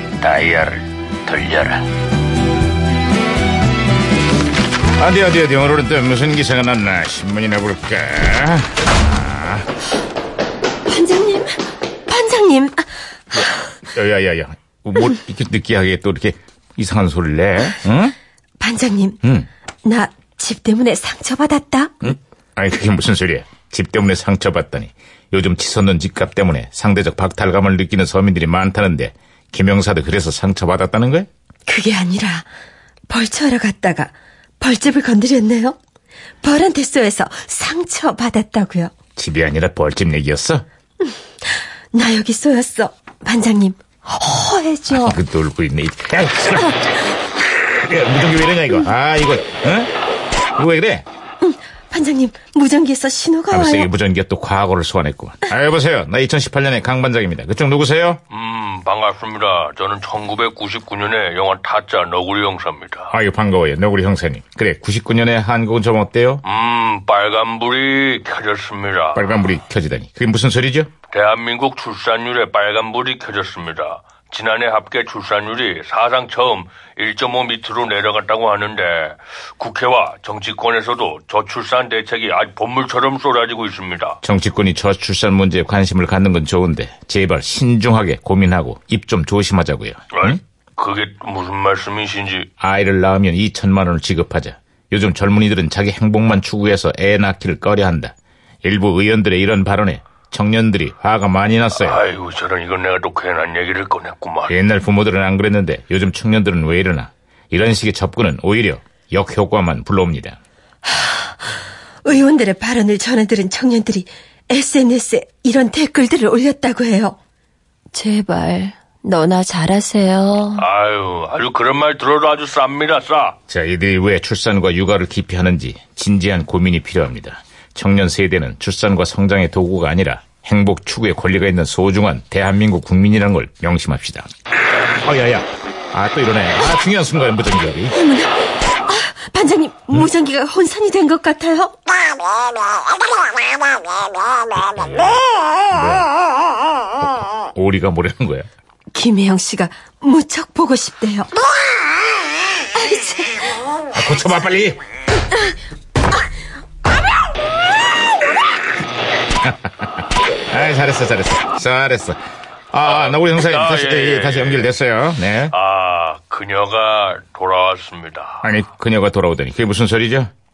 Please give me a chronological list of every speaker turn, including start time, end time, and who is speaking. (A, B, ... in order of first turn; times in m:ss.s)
0:00.2-0:01.8 A
0:05.0-0:09.6 A
0:10.9-0:12.9 B
0:13.9-0:18.1 A
0:18.6-0:19.2 B
0:19.8-0:21.9 B
0:22.0-0:31.3 A
0:31.7-0:32.5 B
0:33.1-0:35.8 B
0:36.4-0:38.9 B
0:39.2-0:40.6 A
0:41.9-0:45.2 B
0:44.9-0:46.8 A
0:47.7-0:49.9 A
0:50.5-0:51.0 A
0:51.4-0:53.9 B
0:53.5-0:58.2 A
0:58.3-1:03.1 C
1:03.1-1:06.4 A
1:06.4-1:09.2 C
1:09.1-1:10.9 A
1:11.1-1:24.2 C
1:24.2-1:30.4 A
1:30.1-1:32.5 C
1:32.6-1:42.0 A
1:41.7-1:44.5 C
1:44.5-1:50.4 A
1:50.8-1:51.3 B
1:52.0-1:57.2 B
1:57.9-2:00.6 B
2:00.6-2:03.4 C
2:03.5-2:14.3 A
2:15.0-2:18.0 A
2:17.9-2:21.8 B
2:24.5-2:26.1 A
2:27.0-2:28.5 A
2:28.9-2:31.3 B
2:32.6-2:33.6 B
2:33.9-2:34.8 A
2:39.4-2:39.7 A
2:40.5-2:42.2 A
2:42.7-2:45.5 A
2:42.8-2:44.7 C
2:45.5-2:48.4 C
2:48.4-2:50.3 A